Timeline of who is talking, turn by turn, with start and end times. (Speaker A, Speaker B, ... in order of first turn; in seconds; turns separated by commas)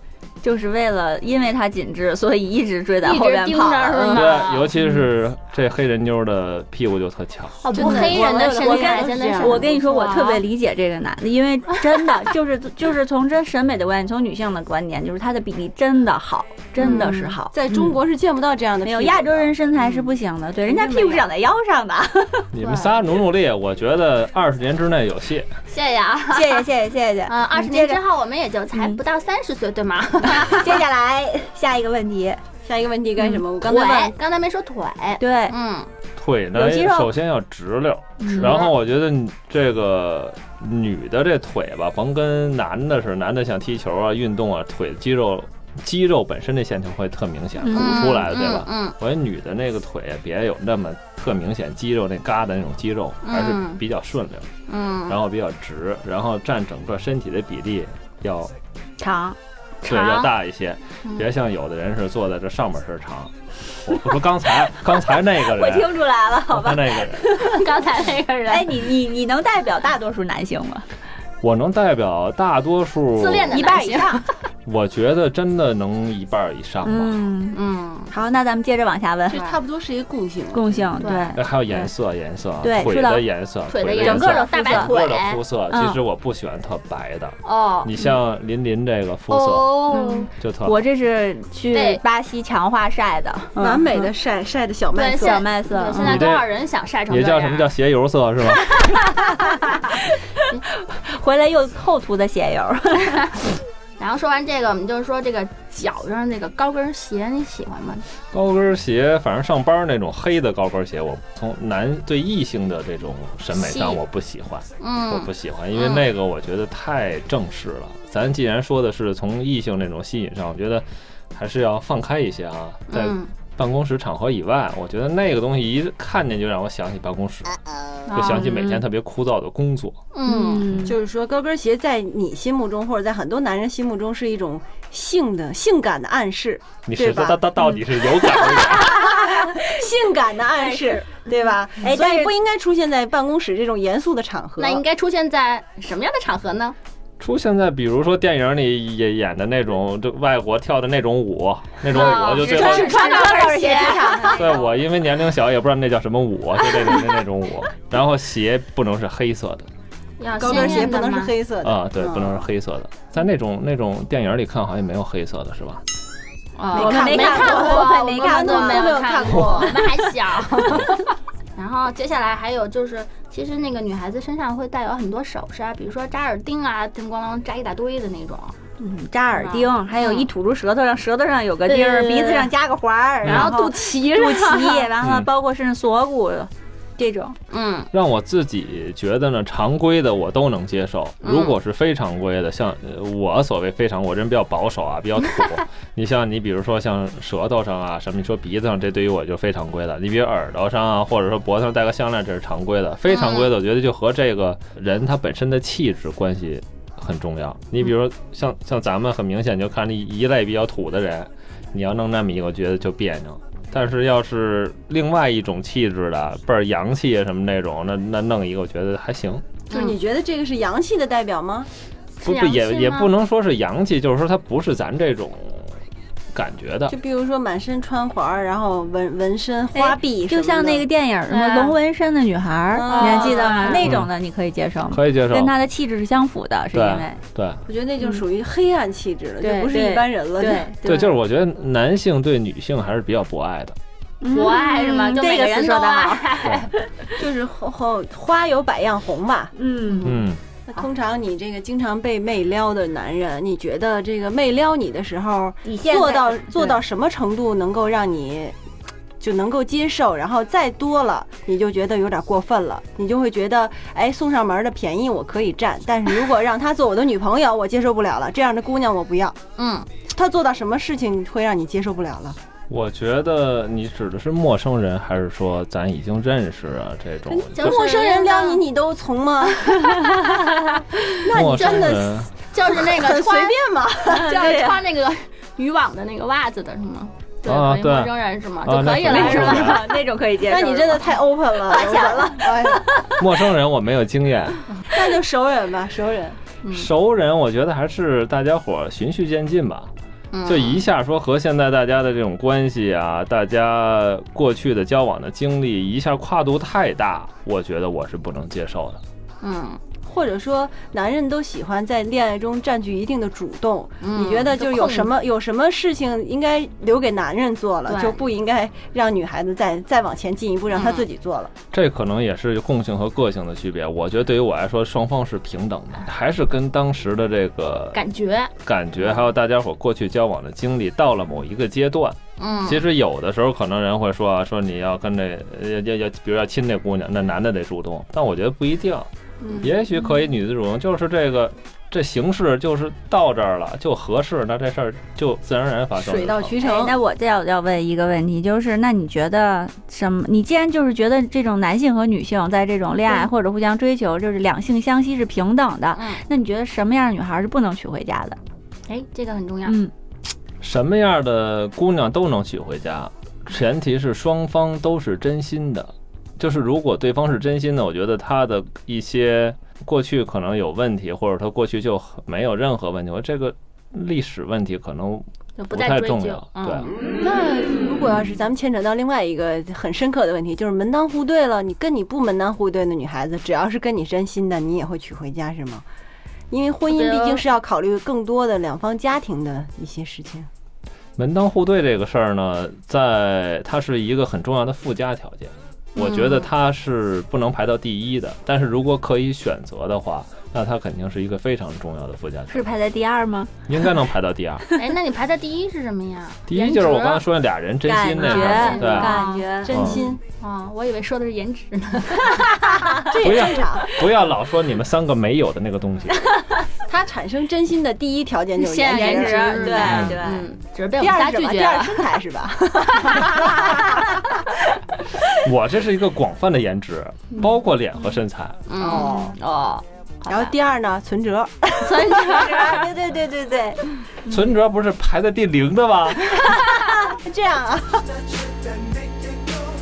Speaker A: 0.4-4.3, Speaker B: 3.0-4.7, Speaker C: 4.1-7.6, Speaker B: 7.6-10.4, Speaker D: 7.7-9.7, Speaker A: 7.7-17.5, Speaker B: 16.8-17.3, Speaker D: 16.8-19.6, Speaker A: 18.8-22.5, Speaker D: 20.6-21.3, Speaker C: 22.5-25.5, Speaker B: 22.6-23.0, Speaker B: 25.7-26.6, Speaker A: 26.3-28.0, Speaker B: 27.3-30.8, Speaker A: 28.7-29.0, Speaker A: 30.2-32.4, Speaker D: 32.6-34.2, Speaker B: 33.6-35.9, Speaker A: 35.2-35.5, Speaker C: 36.2-54.5, Speaker A: 36.5-37.1, Speaker A: 38.2-38.6, Speaker B: 38.3-38.7, Speaker A: 47.6-48.2, Speaker B: 47.7-49.0, Speaker B: 53.2-53.8, Speaker B: 54.7-55.1, Speaker C: 55.1-58.5, Speaker A: 59.0-59.4, Speaker B: 59.8-60.3, Speaker C: 59.9-67.3, Speaker A: 65.4-67.7, Speaker B: 67.4-68.8, Speaker A: 68.5-70.9, Speaker C: 71.4-73.7, Speaker B: 73.1-74.2, Speaker A: 73.5-74.2, Speaker C: 74.7-77.2, Speaker A: 76.8-77.6, Speaker B: 77.5-78.1, Speaker A: 78.1-79.4, Speaker D: 79.3-81.0, Speaker B: 79.3-79.6, Speaker A: 80.5-81.4, Speaker B: 81.0-81.9, Speaker C: 81.3-90.8, Speaker A: 82.6-83.2, Speaker B: 83.7-85.4, Speaker A: 84.0-85.0, Speaker A: 85.7-86.0, Speaker B: 87.4-88.1, Speaker B: 89.3-90.3, Speaker A: 89.9-94.0, Speaker B: 91.7-92.0, Speaker D: 93.5-95.4, Speaker B: 94.9-97.7, Speaker A: 95.2-96.2, Speaker C: 96.0-96.5, Speaker C: 97.1-98.9, Speaker A: 99.2-99.8, Speaker A: 100.9-103.3, Speaker B: 104.0-108.0, Speaker C: 108.3-127.6, Speaker B: 113.5-114.0, Speaker B: 114.8-116.0, Speaker B: 122.9-123.3, Speaker B: 128.1-128.6, Speaker C: 128.1-130.0, Speaker A: 128.4-128.8, Speaker B: 130.1-130.7, Speaker A: 130.2-131.0, Speaker D: 130.8-137.5, Speaker C: 136.8-139.2, Speaker D: 138.2-144.8, Speaker A: 140.6-142.3, Speaker B: 144.6-146.8, Speaker C: 147.2-153.0, Speaker B: 151.9-154.4, Speaker D: 152.3-154.7, Speaker A: 152.4-154.6, Speaker C: 154.3-159.7, Speaker B: 160.2-161.3, Speaker D: 160.4-162.5, Speaker C: 161.6-165.8, Speaker B: 166.6-171.0, Speaker D: 166.7-169.8, Speaker A: 166.7-168.9, Speaker B: 171.6-178.6, Speaker A: 178.8-187.3, Speaker B: 179.3-180.3, Speaker B: 181.7-182.5, Speaker B: 183.2-184.9, Speaker C: 183.2-183.5, Speaker C: 185.0-185.3, Speaker B: 187.5-187.9, Speaker C: 187.9-219.5, Speaker B: 191.2-191.6, Speaker B: 203.1-203.5, Speaker B: 219.7-220.0, Speaker D: 219.7-221.7, Speaker B: 222.2-223.1, Speaker C: 222.2-225.7, Speaker C: 226.3-226.9, Speaker D: 226.9-230.9, Speaker A: 229.7-237.2, Speaker B: 231.3-231.8, Speaker D: 232.7-233.8, Speaker B: 232.8-234.0, Speaker C: 233.8-234.1, Speaker C: 234.9-235.5, Speaker C: 236.7-237.6, Speaker D: 237.7-241.0, Speaker A: 239.4-241.1, Speaker C: 240.8-243.8, Speaker A: 244.2-247.0, Speaker B: 244.3-246.7, Speaker D: 247.2-249.5, Speaker A: 249.6-250.2, Speaker C: 250.0-250.4, Speaker D: 250.7-258.5, Speaker A: 255.6-256.8, Speaker D: 259.2-269.4, Speaker B: 269.6-269.9, Speaker D: 270.1-272.4, Speaker C: 272.7-277.8, Speaker D: 277.3-280.5, Speaker B: 277.5-278.6, Speaker B: 280.1-280.8, Speaker D: 281.1-284.4, Speaker C: 281.3-282.3, Speaker B: 281.4-289.9, Speaker A: 284.2-284.8, Speaker C: 287.4-289.8, Speaker A: 289.0-293.2, Speaker D: 290.4-292.9, Speaker C: 293.2-294.6, Speaker D: 294.8-296.4, Speaker B: 296.6-296.9, Speaker C: 296.7-299.9, Speaker B: 300.3-300.8, Speaker C: 300.4-309.0, Speaker B: 309.4-309.8, Speaker D: 310.1-321.5, Speaker B: 314.0-315.1, Speaker B: 317.9-318.2, Speaker B: 320.7-321.0, Speaker C: 321.7-328.0, Speaker B: 327.9-328.5, Speaker C: 328.6-346.6, Speaker B: 332.4-332.8, Speaker D: 346.0-347.0, Speaker A: 346.6-358.4, Speaker B: 355.9-356.2, Speaker B: 358.9-359.8, Speaker C: 360.6-376.9, Speaker B: 375.6-376.9, Speaker D: 377.1-385.8, Speaker D: 386.5-390.5, Speaker B: 386.9-387.4, Speaker C: 391.2-402.7, Speaker B: 396.0-396.5, Speaker A: 402.5-403.8, Speaker C: 403.7-404.7, Speaker B: 404.7-407.2, Speaker C: 406.5-409.1, Speaker A: 407.8-409.8, Speaker B: 408.2-412.6, Speaker D: 408.8-410.2, Speaker C: 409.7-410.0, Speaker A: 412.2-413.0, Speaker D: 413.0-413.9, Speaker C: 413.1-416.3, Speaker D: 416.9-420.0, Speaker B: 418.6-422.2, Speaker A: 418.9-420.5, Speaker C: 419.8-420.2, Speaker D: 421.0-424.1, Speaker B: 422.9-424.0, Speaker C: 425.3-428.6, Speaker B: 428.7-430.5, Speaker D: 428.8-429.4, Speaker D: 430.3-432.5, Speaker B: 431.8-432.9, Speaker A: 432.2-433.8, Speaker C: 434.3-436.6, Speaker D: 437.0-438.3